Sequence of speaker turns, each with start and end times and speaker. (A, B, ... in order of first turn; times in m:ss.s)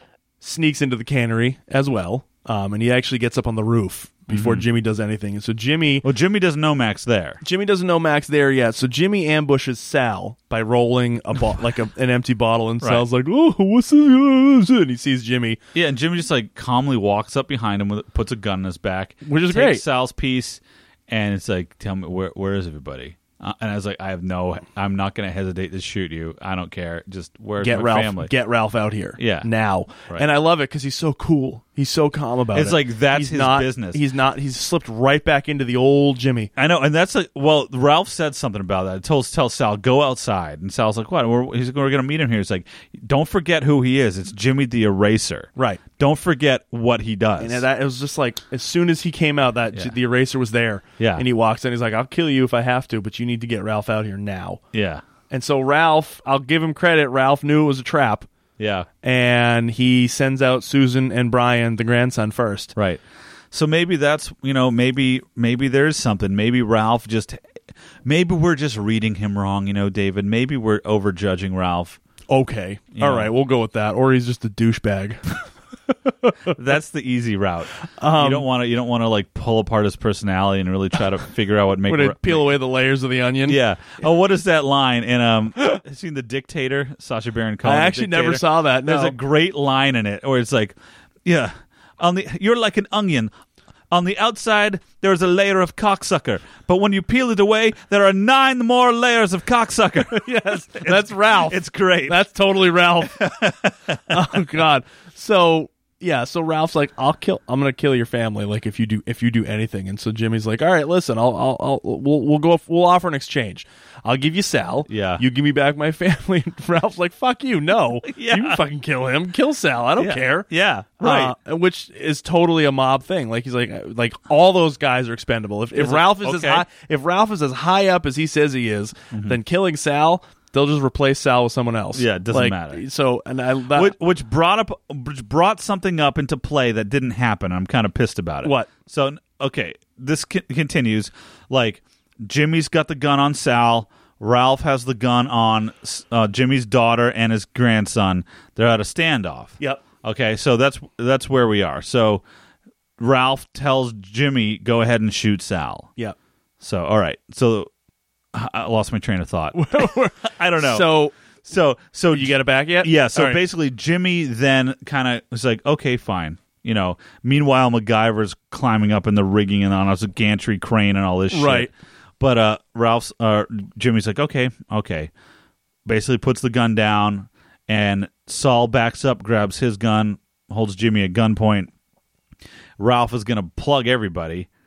0:00.4-0:06.0 A
0:04.3-0:04.6 B
0:06.0-0:07.4 B
0:07.4-0:15.6 A
0:15.7-0:28.3 B
0:19.2-0:19.8 A
0:27.6-0:36.5 A
0:29.2-0:29.5 B
0:32.5-0:34.0 B
0:36.6-0:47.6 B
0:45.6-0:45.8 A
0:47.4-0:54.6 A
0:51.0-0:51.2 B
0:54.7-0:55.0 B
0:55.3-0:58.3 A
0:58.6-0:58.9 B
0:59.0-1:02.7 A
1:02.8-1:07.4 B
1:08.0-1:12.0 B
1:12.3-1:15.2 A
1:12.9-1:13.3 B
1:16.1-1:16.4 A
1:16.5-1:22.5 B
1:18.0-1:18.4 A
1:21.9-1:23.6 A
1:23.4-1:33.3 B
1:27.6-1:29.2 A
1:33.9-1:42.2 B
1:40.1-1:43.2 A
1:43.0-1:44.4 B
1:44.1-2:00.5 A
1:54.9-1:55.2 B
1:58.0-1:58.6 B
2:00.0-2:01.3 B
2:01.0-2:13.9 A
2:05.8-2:06.6 B
2:09.1-2:09.4 B
2:11.9-2:12.8 B
2:13.7-2:32.2 B
2:18.4-2:18.7 A
2:33.0-2:35.9 B
2:36.6-2:37.7 B
2:38.3-2:40.9 B
2:39.5-2:41.1 A
2:41.4-2:55.1 B
2:42.1-2:43.4 A
2:51.3-2:51.7 A
2:55.8-3:01.7 B
3:02.8-3:04.5 B